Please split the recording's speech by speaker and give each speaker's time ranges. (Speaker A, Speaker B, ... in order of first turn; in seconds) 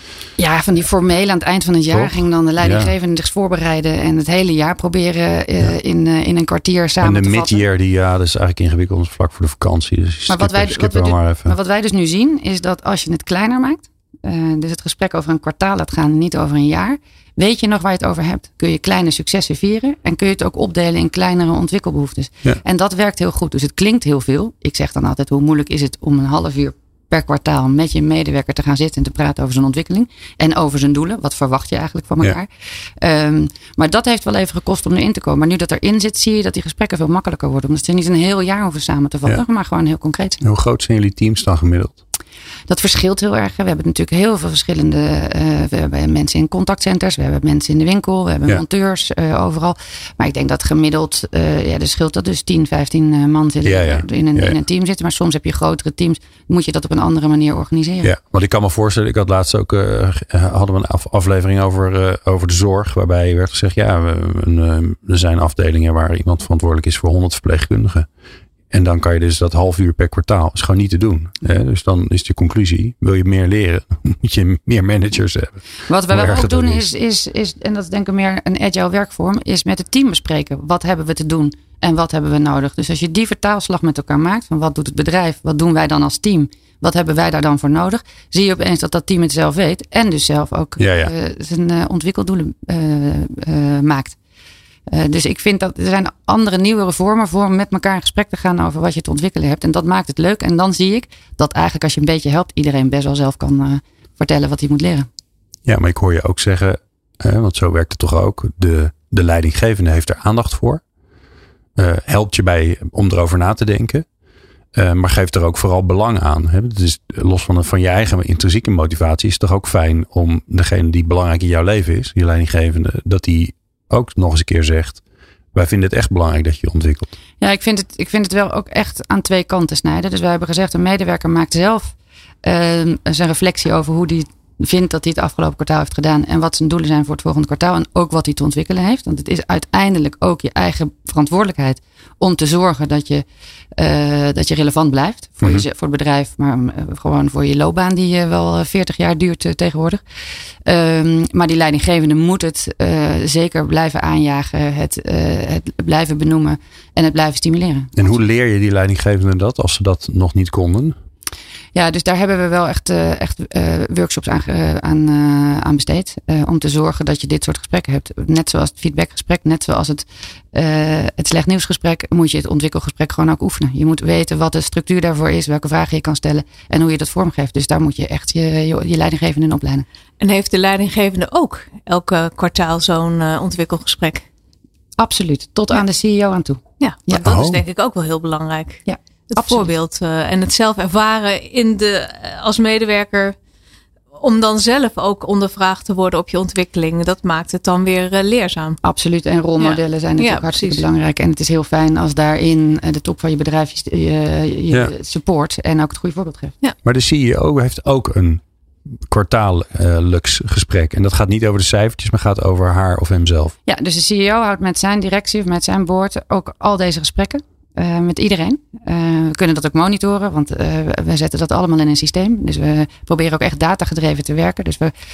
Speaker A: 0.4-7.7, 10.3-32.5, 33.0-40.4, 42.7-58.1, 75.9-94.2, 94.9-105.1, 127.4-143.2, 143.8-150.0, 150.7-158.2, 161.8-179.8, 185.0-187.4, 188.9-189.7, 198.8-206.5, 213.7-224.9
Speaker B: 1.9-2.9, 7.0-11.6, 40.4-42.0, 53.6-54.6, 58.0-68.1, 68.7-76.9, 90.8-91.1, 105.7-110.8, 111.8-114.0, 114.8-125.0, 125.5-127.1, 158.0-160.9, 187.2-187.6, 206.8-208.4, 209.1-213.6
Speaker C: 180.2-184.3, 186.8-193.4, 194.2-198.8, 199.6-200.8